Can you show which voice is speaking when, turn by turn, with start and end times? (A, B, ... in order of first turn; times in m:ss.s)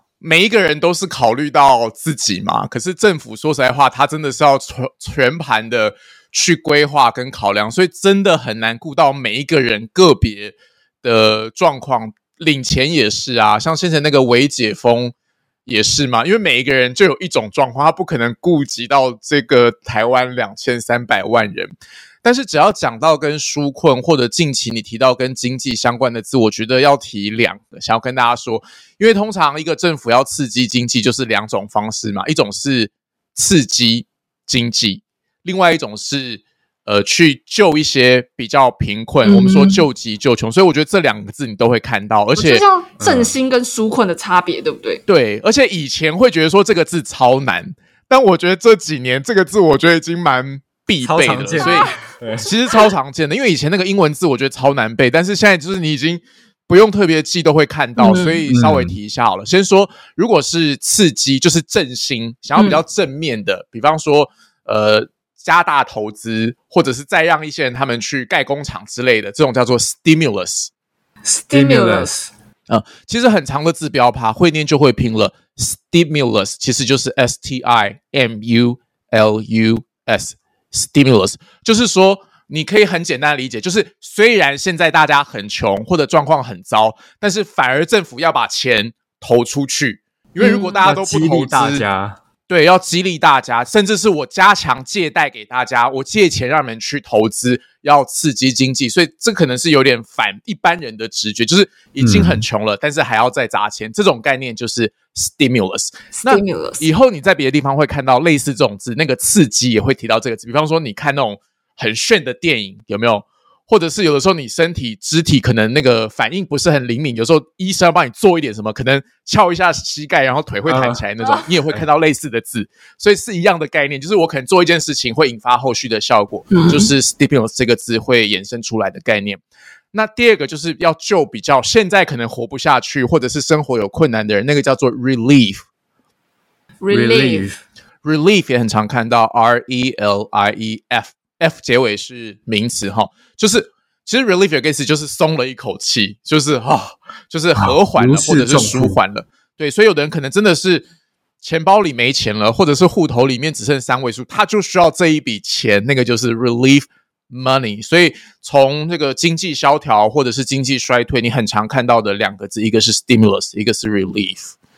0:00.2-0:15.1 A
0:15.6-0:21.7 A
0:22.2-0:42.6 A
0:39.2-0:39.8 B
0:42.4-0:45.0 B
0:43.0-0:43.3 C
0:45.1-1:10.7 A
0:51.0-0:52.5 C
0:51.6-0:52.0 B
0:58.0-0:58.4 B
0:58.5-0:59.0 C
1:02.6-1:02.8 B
1:11.2-1:12.3 C
1:11.5-1:12.1 B
1:12.7-1:31.8 A
1:30.4-1:30.8 B
1:30.8-1:32.2 C
1:32.5-2:09.4 A
1:42.0-1:42.4 C
1:46.2-1:46.9 B
2:00.6-2:01.0 C
2:01.2-2:01.5 B
2:06.5-2:06.9 B
2:09.9-2:15.6 A
2:16.8-2:17.5 B
2:16.9-2:17.6 C
2:18.0-2:30.8 A
2:27.6-2:29.0 C
2:31.4-2:44.5 A